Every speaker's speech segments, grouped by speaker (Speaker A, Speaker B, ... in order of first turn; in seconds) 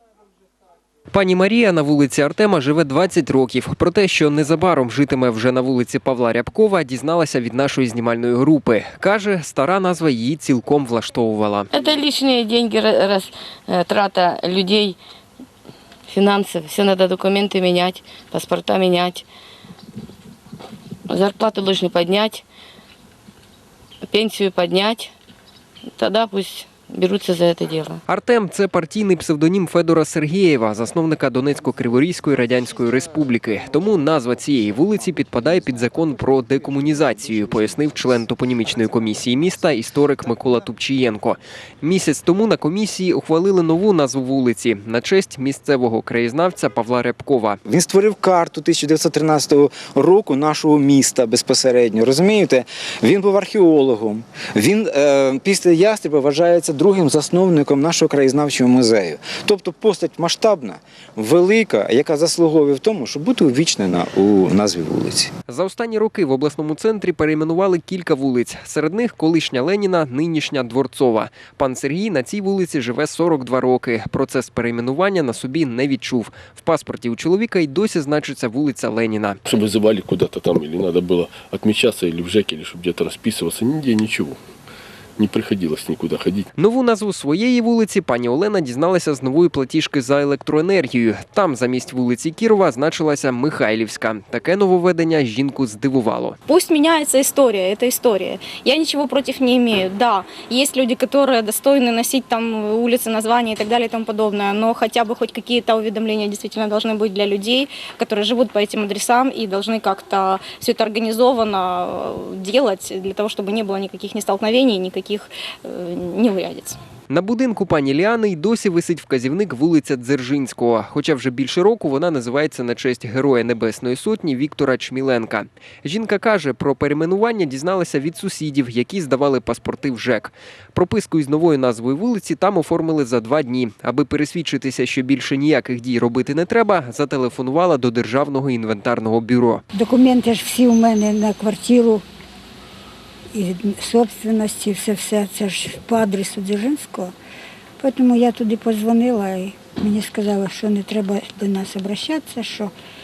Speaker A: 1.1-11.7, 28.1-47.6, 65.5-79.4, 86.6-96.4, 117.1-139.6
Speaker B: 11.7-15.0, 16.1-19.2, 21.1-22.4, 24.1-25.1, 25.9-28.0
Speaker C: 47.6-65.3
Speaker D: 79.5-84.4, 85.2-86.5
Speaker E: 96.5-116.8
Speaker F: 139.7-142.0, 143.3-147.1, 147.8-152.7